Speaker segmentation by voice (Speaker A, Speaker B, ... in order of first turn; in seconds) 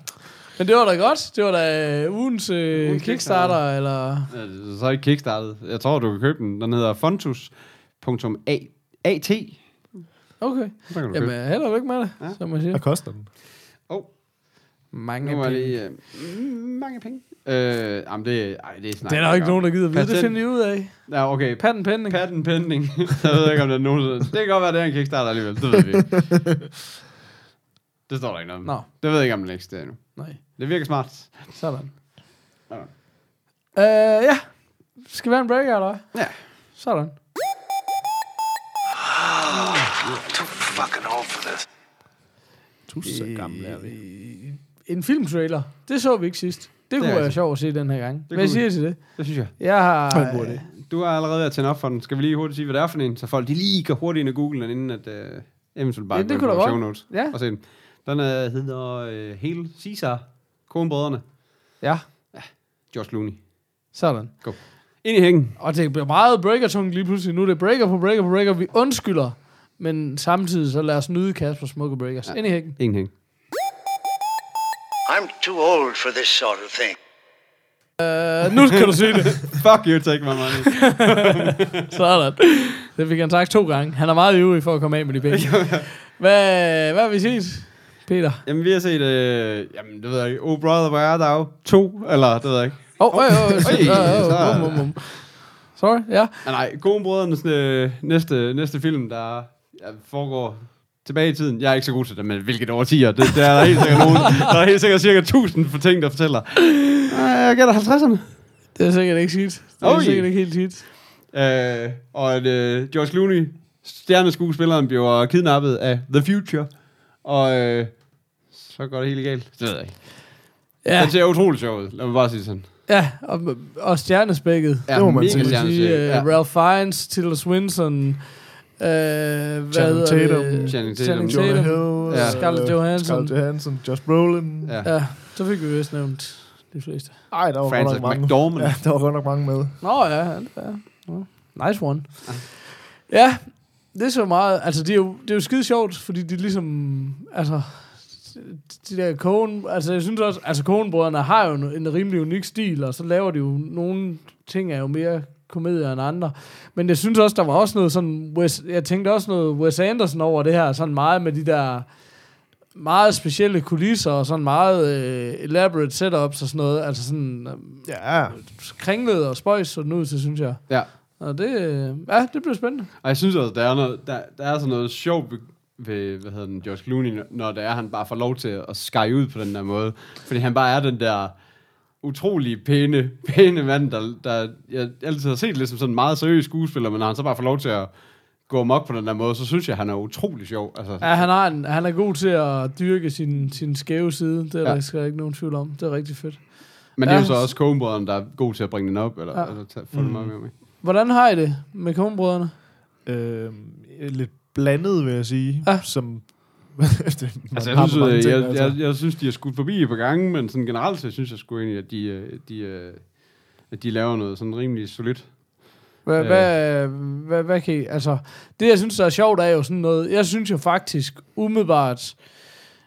Speaker A: 0.6-4.3, 10.4-12.8, 14.9-15.8, 19.1-22.2, 31.6-31.9, 33.7-37.1, 43.0-50.6, 56.1-57.4, 61.8-62.1, 63.9-65.0, 65.6-72.8, 78.0-79.5, 81.8-88.4, 93.0-96.4, 108.8-110.8, 120.8-121.1, 122.9-133.3, 134.8-137.2, 139.8-162.1, 162.7-172.9, 191.0-197.5, 200.7-202.5, 216.1-222.5
Speaker B: 2.8-10.1, 10.7-12.4, 13.9-26.6, 28.1-31.6, 36.1-36.4, 47.0-50.1, 50.6-61.8, 62.3-65.6, 72.3-73.1, 79.4-81.9, 85.3-85.9, 88.5-95.0, 96.4-108.4, 109.8-122.7, 124.9-126.3, 130.7-132.7, 134.6-134.9, 137.6-138.8, 173.0-191.4, 197.0-200.5, 207.5-216.5
Speaker C: 12.7-13.3, 42.9-44.0, 50.2-50.6, 124.9-125.7, 129.7-135.0, 137.3-139.8, 167.8-168.4, 199.9-200.4, 203.1-208.8
Speaker D: 39.3-39.7, 40.3-41.6, 75.1-77.0